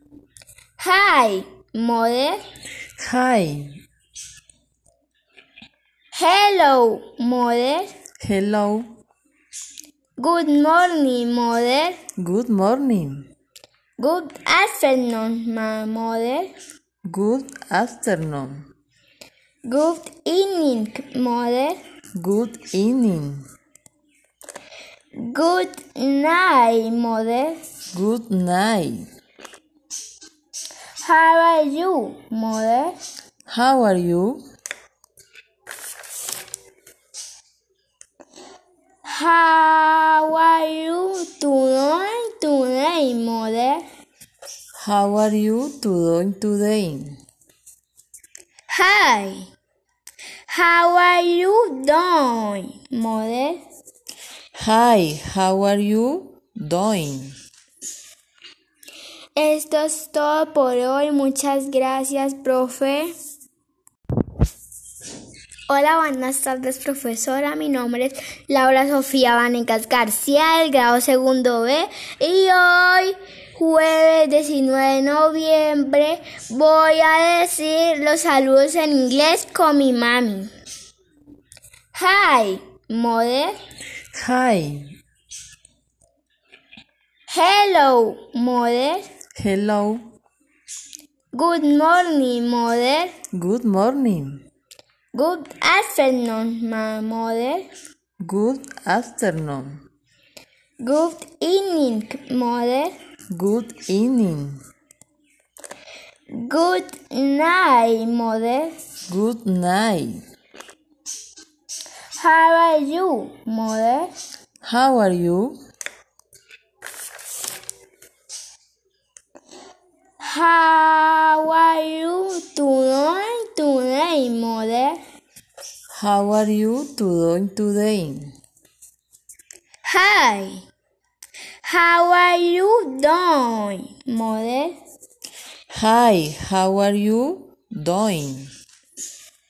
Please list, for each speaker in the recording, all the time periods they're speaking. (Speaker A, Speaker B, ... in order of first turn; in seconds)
Speaker A: 0.8-2.4, 6.1-7.9, 10.2-12.0, 14.0-16.5, 19.7-21.8, 25.2-27.6, 31.0-33.0, 39.0-43.8, 48.7-49.5, 50.5-53.6, 59.4-63.1, 65.7-80.5, 81.9-83.6, 87.3-89.0, 91.3-93.1, 95.1-97.7, 100.8-102.9, 106.3-108.8, 112.2-114.1, 120.2-125.0, 129.8-130.6, 131.6-134.8
Speaker B: 3.0-3.8, 8.2-8.9, 12.2-13.3, 17.1-18.6, 22.2-23.4, 27.9-29.1, 33.5-34.4, 44.8-47.2, 54.5-57.4, 84.1-84.9, 89.4-90.0, 93.3-94.4, 98.2-99.8, 103.3-104.6, 109.1-110.2, 114.6-115.6, 125.9-128.3, 135.7-138.5